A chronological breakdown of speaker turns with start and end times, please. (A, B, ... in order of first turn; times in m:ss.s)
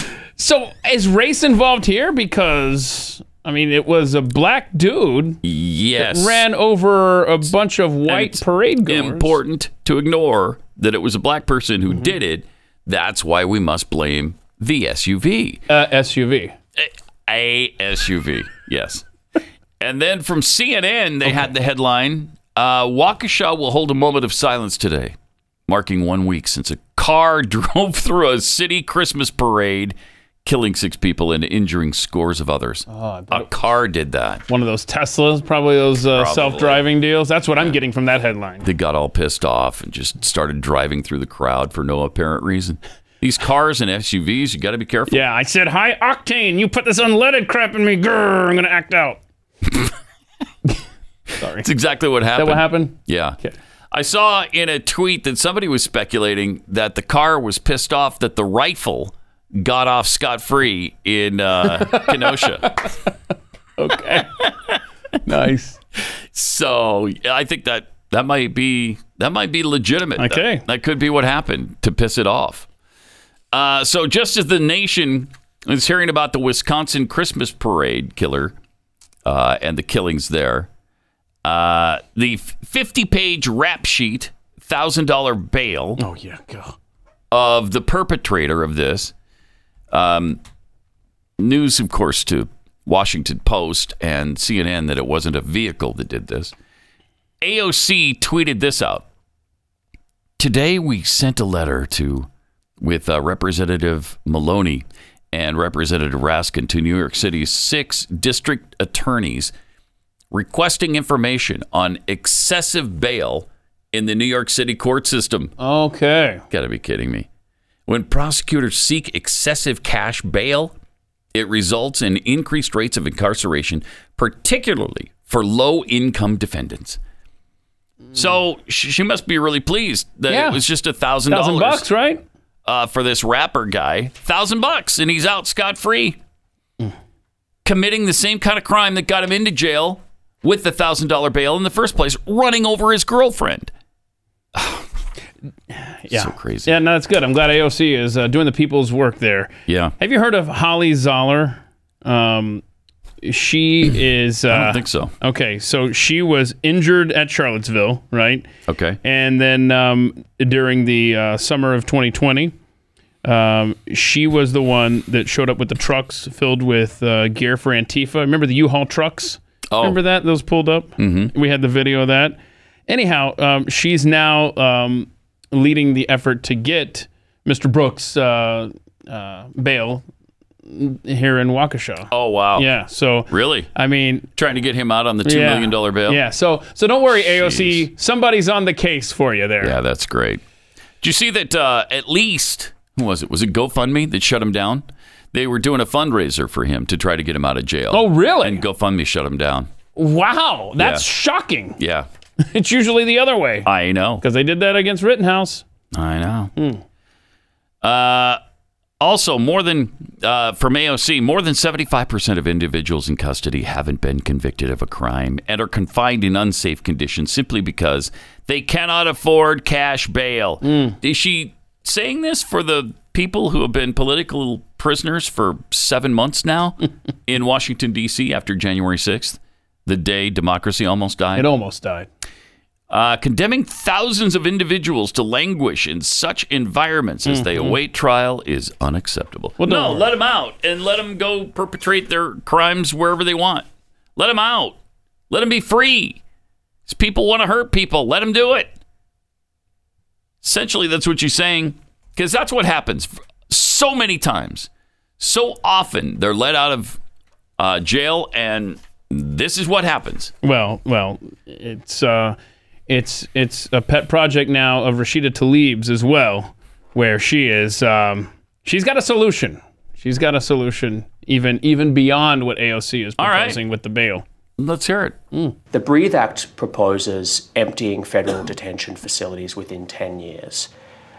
0:00.4-0:05.4 A
0:05.4-0:06.4 B
0:06.0-0:09.4 A
0:08.1-0:15.6 B
0:15.7-0:16.5 A
0:16.8-0:19.0 B
0:19.8-0:25.1 B
0:25.7-0:34.4 B
0:32.9-0:33.6 A
0:34.5-0:38.7 A
0:36.1-0:36.9 B
0:38.6-0:45.2 B
0:45.1-0:49.2 A
0:51.4-0:51.7 A
0:51.6-0:53.4 B
0:52.3-0:53.5 A
0:53.9-1:02.7 B
1:01.6-1:02.9 A
1:03.8-1:04.4 A
1:05.2-1:05.8 A
1:06.3-1:12.7 B
1:10.2-1:10.6 A
1:13.5-1:18.5 B
1:19.2-1:20.7 B
1:21.4-1:26.0 B
1:26.0-1:26.7 A
1:27.3-1:29.1 B
1:29.9-1:30.4 B
1:31.4-1:36.5 B
1:37.4-1:39.1 B
1:40.4-1:42.3 B
1:42.8-1:49.5 B
1:50.3-1:55.5 B
1:55.6-1:56.4 A
1:56.5-1:57.3 B
1:57.9-2:00.7 B
2:01.3-2:07.0 B
2:08.1-2:11.8 B
2:10.3-2:10.6 A
2:11.3-2:12.2 A
2:12.6-2:16.2 B
2:17.6-2:23.7 B
2:24.5-2:24.9 B
2:25.7-2:32.6 A
2:26.1-2:26.8 B
2:29.7-2:29.9 B
2:33.2-2:38.5 A
2:34.5-2:35.1 B
2:38.7-2:39.0 B
2:39.0-2:42.5 A
2:43.2-3:00.0 A
2:49.7-2:50.0 B
2:51.0-2:51.3 B
3:00.7-3:04.3 A
3:02.1-3:02.7 B
3:03.3-3:03.7 B
3:04.3-3:06.2 B
3:05.2-3:09.8 A
3:07.1-3:07.9 B
3:09.6-3:10.4 B
3:11.0-3:19.7 B
3:17.9-3:18.6 A
3:19.9-3:21.8 A
3:20.8-3:21.0 B
3:21.8-3:22.1 B
3:22.5-3:23.7 A
3:23.6-3:24.2 B
3:24.2-3:25.6 A
3:25.9-3:26.5 B
3:26.6-3:26.8 A
3:27.8-3:28.4 B
3:29.0-3:51.5 B
3:40.6-3:41.0 A
3:51.4-3:52.1 A
3:52.9-4:04.8 B
3:57.3-3:57.8 A
3:59.6-4:00.1 A
4:05.3-4:06.2 B
4:06.9-4:08.8 B
4:10.4-4:17.0 B
4:17.6-4:20.3 B
4:20.4-4:22.4 A
4:22.9-4:34.2 A
4:33.2-4:33.6 B
4:34.6-4:35.2 B
4:35.7-4:40.7 C